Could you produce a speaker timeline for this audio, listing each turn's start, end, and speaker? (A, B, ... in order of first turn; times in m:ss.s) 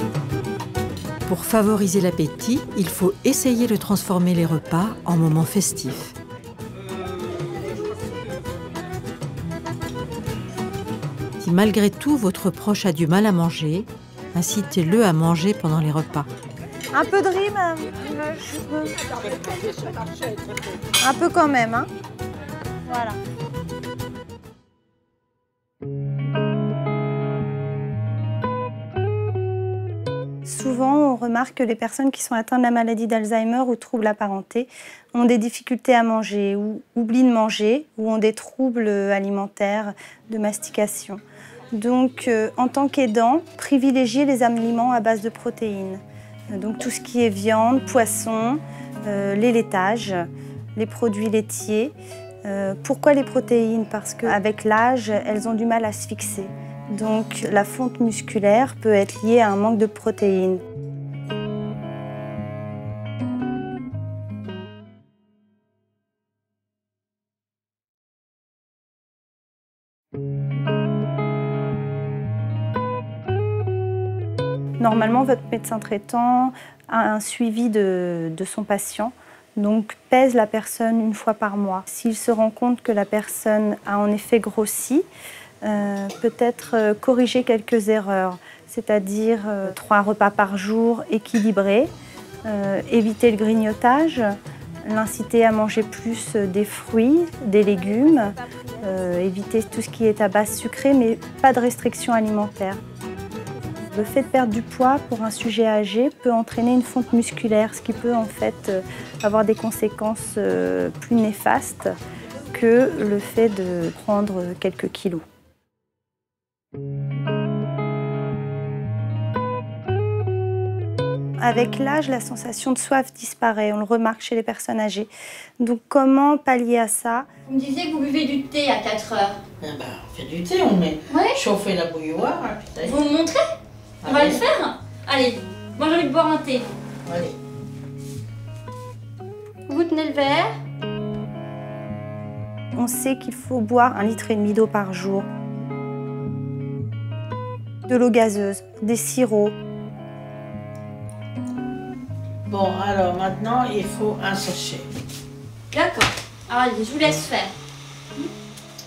0:01.2-0:06.1 A
0:11.4-0:16.3 A
0:16.9-0:19.0 B
0:21.0-0:21.9 B
0:30.4-0:41.2 B
0:41.7-1:00.6 B
1:14.8-1:25.0 B
1:25.6-1:31.9 B
1:32.4-1:42.8 B
1:43.9-1:51.9 B
1:52.5-1:55.2 B
2:01.4-2:05.1 B
2:05.6-2:07.3 B
2:07.5-2:09.4 C
2:09.6-2:13.0 D
2:11.1-2:11.4 C
2:12.8-2:13.4 C
2:14.0-2:14.4 D
2:14.0-2:16.7 C
2:17.0-2:17.4 D
2:19.7-2:20.6 C
2:22.7-2:25.3 B
2:27.9-2:29.5 B
2:32.5-2:34.9 D
2:35.7-2:37.5 C